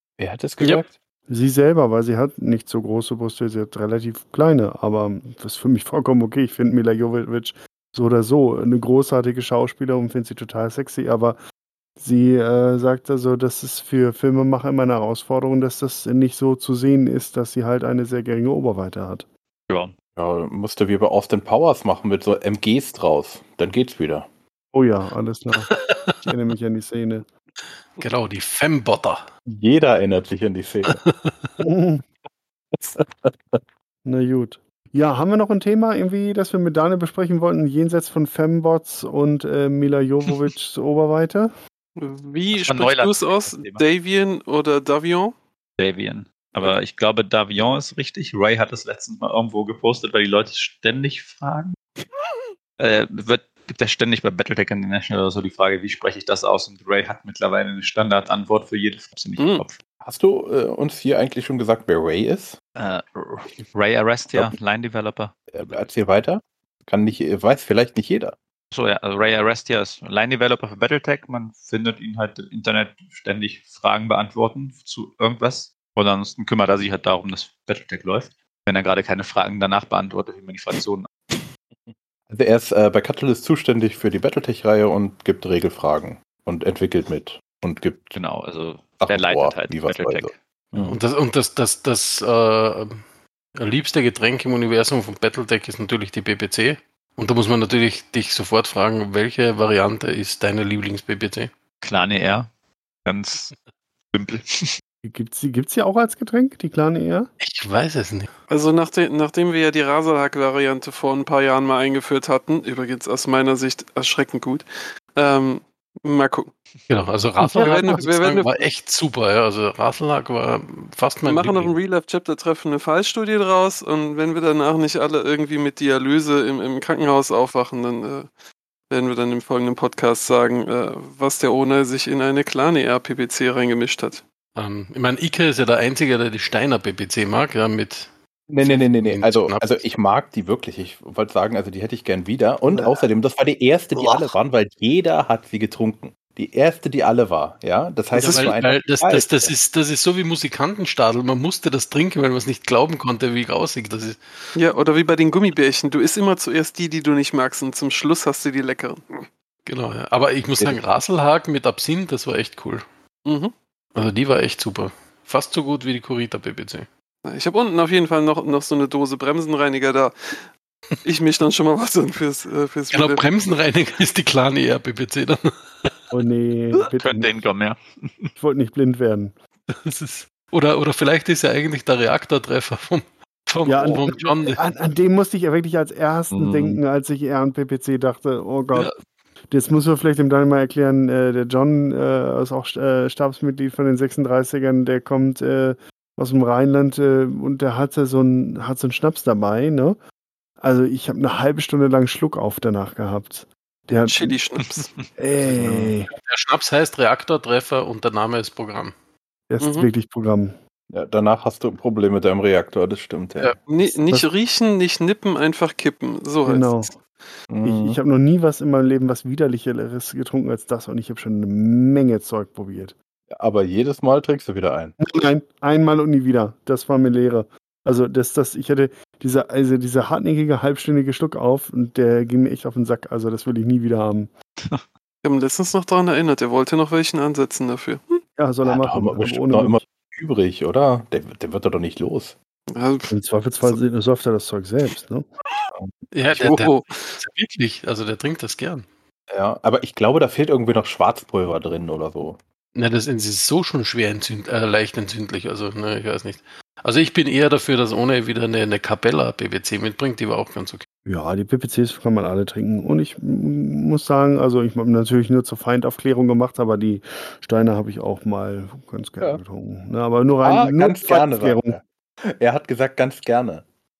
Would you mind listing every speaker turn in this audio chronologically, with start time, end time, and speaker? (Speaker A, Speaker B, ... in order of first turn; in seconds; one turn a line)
Speaker A: 0.2-1.0
Speaker B: 1.3-11.4
Speaker B: 12.0-19.2
Speaker A: 20.1-24.3
Speaker B: 24.7-25.7
Speaker C: 25.7-26.2
Speaker B: 26.2-27.2
Speaker C: 28.0-29.3
Speaker A: 29.5-31.0
Speaker C: 30.9-31.5
Speaker B: 31.6-32.0
Speaker B: 32.8-41.5
Speaker D: 42.0-45.3
Speaker E: 42.5-43.8
Speaker E: 45.8-51.8
Speaker E: 52.8-59.8
Speaker D: 59.4-59.6
Speaker A: 60.0-62.6
Speaker E: 62.8-65.8
Speaker A: 65.5-68.3
Speaker E: 68.7-81.4
Speaker A: 81.7-88.2
Speaker E: 88.1-90.3
Speaker A: 89.0-91.0
Speaker C: 90.8-93.0
Speaker C: 93.5-101.5
Speaker E: 101.8-102.5
Speaker E: 103.0-103.5
Speaker E: 104.1-104.7
Speaker B: 105.0-107.3
Speaker C: 107.4-108.3
Speaker D: 108.5-116.5
Speaker C: 116.9-121.7
Speaker B: 117.5-117.9
Speaker D: 117.5-118.7
Speaker D: 121.2-128.3
Speaker D: 128.9-134.2
Speaker C: 134.6-139.7
Speaker A: 138.5-149.5
Speaker C: 148.1-154.2
Speaker D: 148.2-148.5
Speaker D: 154.6-159.3
Speaker C: 159.7-162.8
Speaker D: 163.2-163.5
Speaker C: 163.9-166.9
Speaker D: 167.2-170.5
Speaker D: 171.0-173.2
Speaker C: 172.9-176.1
Speaker B: 176.1-177.3
Speaker E: 176.8-178.3
Speaker B: 178.4-179.3
Speaker C: 179.7-184.6
Speaker B: 183.7-188.9
Speaker A: 186.3-186.8
Speaker B: 189.5-200.0
Speaker B: 200.6-204.3
Speaker D: 204.1-204.9
Speaker E: 204.8-205.0
Speaker B: 205.2-206.1
Speaker A: 205.5-205.9
Speaker C: 206.1-208.9
Speaker B: 209.5-210.6
Speaker D: 209.6-209.9
Speaker A: 210.9-213.5
Speaker D: 213.7-217.0
Speaker B: 216.4-216.9
Speaker A: 217.5-218.0
Speaker B: 217.6-222.9
Speaker A: 223.3-225.0
Speaker B: 225.0-234.3
Speaker D: 235.2-238.2
Speaker B: 238.4-239.8
Speaker A: 238.6-242.3
Speaker D: 242.7-243.1
Speaker B: 243.1-245.2
Speaker C: 246.1-248.9
Speaker D: 246.3-247.2
Speaker A: 249.3-252.4
Speaker C: 252.7-260.9
Speaker B: 261.1-271.8
Speaker A: 270.4-273.7